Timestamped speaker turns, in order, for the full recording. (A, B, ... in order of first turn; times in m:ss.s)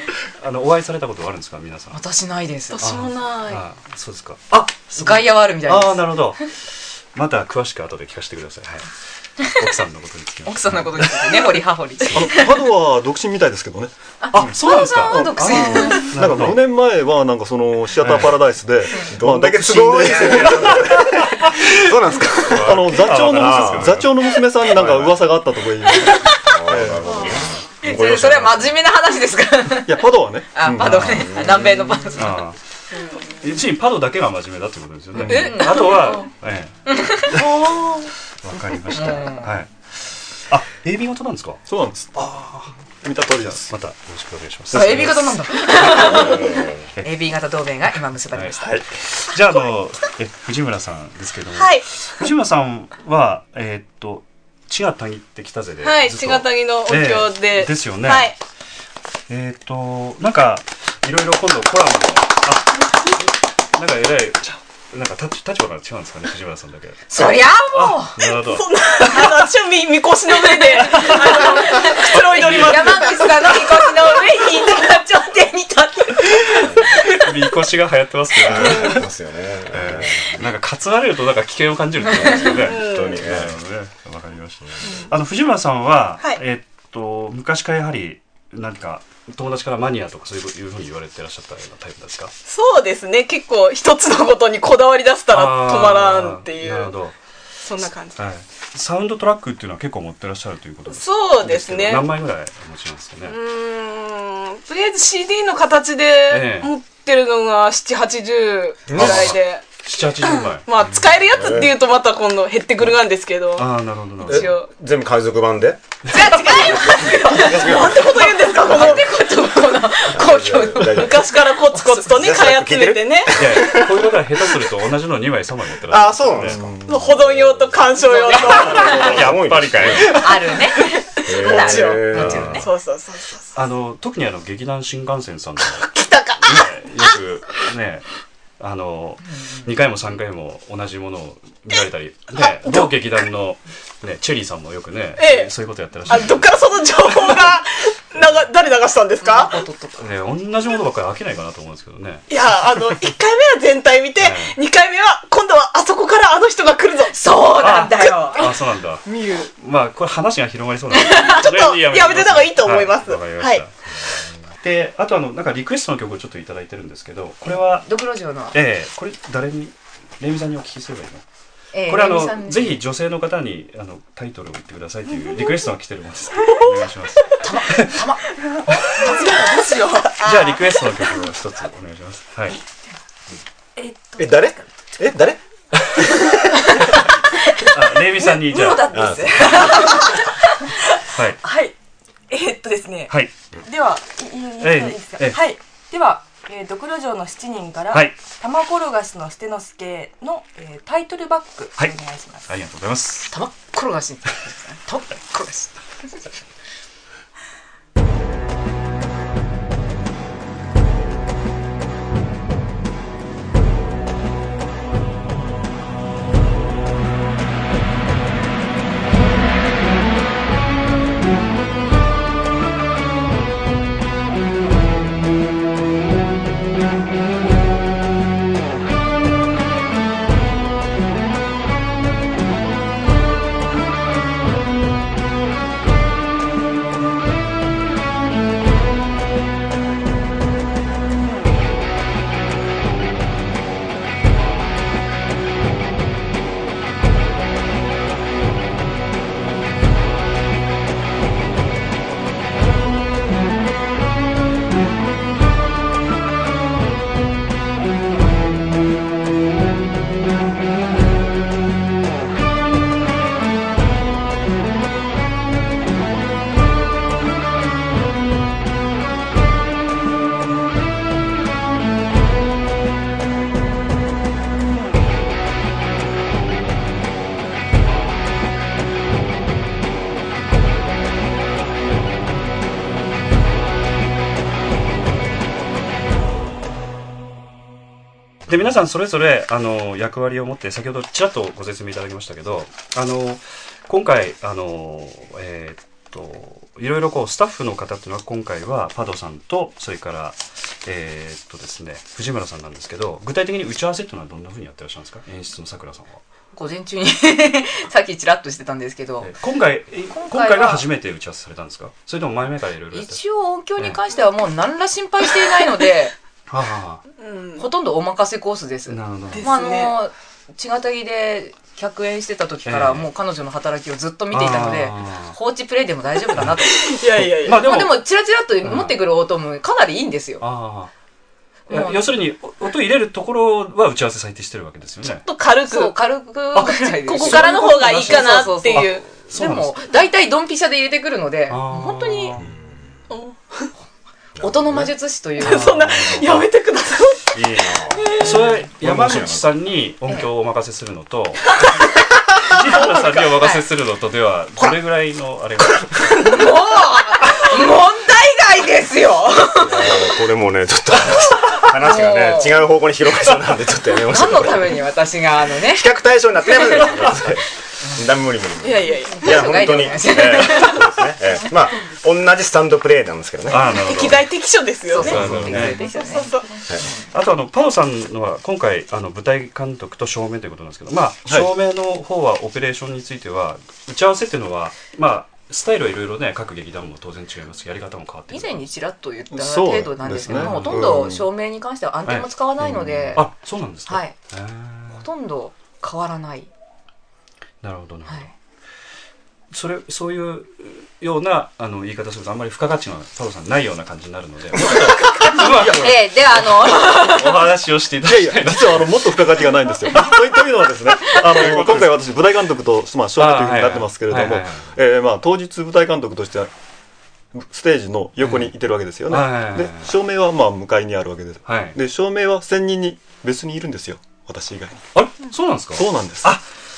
0:00.4-0:02.0 A
0:01.9-0:02.9 B
0:02.7-0:03.6 C
0:02.8-0:11.5 A
0:04.9-0:06.4 B
0:10.5-0:12.6 B
0:12.1-0:21.0 D
0:14.2-0:16.1 B
0:14.3-0:16.6 A
0:18.0-0:18.4 A
0:19.0-0:24.0 E
0:20.2-0:21.5 A
0:22.5-0:24.1 A
0:22.6-0:27.1 D
0:24.8-0:25.1 A
0:24.8-0:25.1 E
0:26.0-0:26.4 B
0:26.4-0:28.7 E
0:27.1-0:29.9 B
0:29.9-0:31.1 D
0:30.5-0:32.4 B
0:30.8-0:32.7 A
0:31.1-0:31.8 E
0:33.0-0:33.2 C
0:33.2-0:37.6 A
0:35.2-0:35.5 D
0:35.3-0:36.2 B
0:36.9-0:37.4 B
0:37.4-0:38.1 C
0:38.4-0:39.7 A
0:38.9-0:39.5 B
0:40.5-0:41.6 A
0:41.7-0:42.1 D
0:42.2-0:46.3 A
0:43.0-0:43.7 D
0:44.7-0:48.8 B
0:44.8-0:46.9 E
0:48.3-0:58.4 A
0:51.5-0:51.9 C
0:55.8-0:58.4 C
0:59.3-1:09.4 A
1:07.1-1:08.2 B
1:08.2-1:14.1 C
1:11.2-1:17.1 B
1:11.8-1:13.1 A
1:16.5-1:16.9 E
1:16.6-1:19.1 A
1:18.4-1:20.4 E
1:19.7-1:32.3 A
1:22.2-1:23.6 E
1:22.7-1:23.2 C
1:32.5-1:36.9 C
1:35.3-1:37.2 A
1:37.6-1:38.2 C
1:38.2-1:43.4 A
1:40.9-1:42.1 C
1:43.2-1:53.7 C
1:46.3-1:46.7 A
1:48.9-1:49.4 E
1:48.9-1:50.7 A
1:51.4-1:51.8 E
1:53.6-1:54.5 A
1:54.2-1:55.8 E
1:54.3-1:54.7 C
1:56.1-2:02.4 B
1:56.2-1:59.2 C
1:56.7-1:59.1 E
2:00.1-2:01.3 E
2:01.0-2:03.4 C
2:02.2-2:04.6 E
2:03.3-2:06.6 A
2:05.9-2:06.7 E
2:06.4-2:07.2 D
2:06.9-2:09.2 C
2:08.0-2:09.3 B
2:08.4-2:10.2 A
2:08.7-2:10.2 E
2:09.9-2:13.6 C
2:10.1-2:12.7 B
2:11.3-2:12.6 E
2:12.1-2:12.6 A
2:13.6-2:15.9 A
2:15.6-2:17.2 C
2:16.4-2:18.1 A
2:18.6-2:26.5 A
2:19.3-2:19.7 B
2:21.7-2:23.0 C
2:25.2-2:25.5 C
2:26.1-2:29.6 C
2:29.2-2:30.0 B
2:30.0-2:32.2 A
2:32.3-2:37.2 C
2:34.2-2:34.6 A
2:37.1-2:38.5 B
2:37.6-2:39.0 A
2:39.1-2:39.5 C
2:39.6-2:47.9 A
2:40.9-2:43.6 C
2:47.5-2:48.6 B
2:48.5-2:51.2 A
2:51.7-2:52.8 B
2:51.9-2:58.0 A
2:57.4-2:58.3 B
2:58.9-2:59.8 B
2:59.0-3:00.1 F
2:59.7-3:00.8 C
3:00.2-3:02.6 A
3:03.8-3:04.4 F
3:04.2-3:05.4 E
3:05.9-3:06.8 E
3:07.6-3:09.0 A
3:08.1-3:11.8 F
3:08.9-3:09.8 E
3:11.1-3:11.4 A
3:12.3-3:22.5 F
3:14.6-3:15.4 A
3:17.9-3:18.2 A
3:21.8-3:23.4 A
3:23.3-3:26.3 B
4:48.5-5:06.2 A
5:06.5-5:09.3 B
5:09.2-5:13.2 A
5:10.1-5:10.9 B
5:12.9-5:16.1 B
5:16.5-5:17.0 A
5:17.2-5:17.7 C
5:17.6-5:30.4 B
5:18.9-5:19.5 A
5:19.3-5:20.0 C
5:22.7-5:23.1 A
5:24.3-5:25.4 A
5:26.7-5:27.6 C
5:27.2-5:28.0 A
5:28.6-5:29.0 A
5:30.4-5:30.9 A
5:31.7-5:32.2 B
5:31.7-5:35.2 A
5:35.1-5:36.0 C
5:35.6-5:42.4 B
5:36.5-5:39.1 C
5:37.2-5:37.5 A
5:38.7-5:39.8 A
5:41.5-5:42.5 A
5:42.4-5:42.8 E
5:43.1-5:43.7 C
5:44.4-5:44.9 E
5:44.4-5:45.8 B
5:45.4-5:46.4 A
5:45.4-5:48.5 C
5:47.3-5:51.6 A
5:47.6-5:49.6 E
5:52.4-5:56.3 A
5:52.7-5:53.6 B
5:56.2-6:00.1 B
5:59.6-6:04.8 E
6:01.7-6:02.7 B
6:04.1-6:05.9 B
6:05.7-6:13.6 E
6:07.8-6:08.1 B
6:08.6-6:09.4 C
6:09.1-6:10.8 B
6:10.2-6:10.9 C
6:13.5-6:14.3 A
6:13.6-6:16.6 C
6:14.9-6:16.3 B
6:15.0-6:15.8 A
6:15.1-6:15.8 E
6:17.1-6:28.6 A
6:21.2-6:21.5 D
6:28.3-6:33.3 B
6:29.3-6:31.3 D
6:30.3-6:31.0 A
6:32.0-6:35.0 A
6:32.6-6:33.1 D
6:33.9-6:34.2 B
6:34.9-6:36.5 B
6:37.6-6:38.3 A
6:38.1-6:38.3 B
6:39.5-6:49.1 A
6:45.0-6:47.5 B
6:45.5-6:46.0 D
6:48.0-6:56.5 D
6:51.1-6:52.0 A
6:53.2-6:54.7 A
6:57.3-7:04.8 D
6:58.2-6:58.5 A
6:59.1-6:59.9 A
7:01.4-7:01.8 A
7:04.9-7:06.4 A
7:05.7-7:06.4 D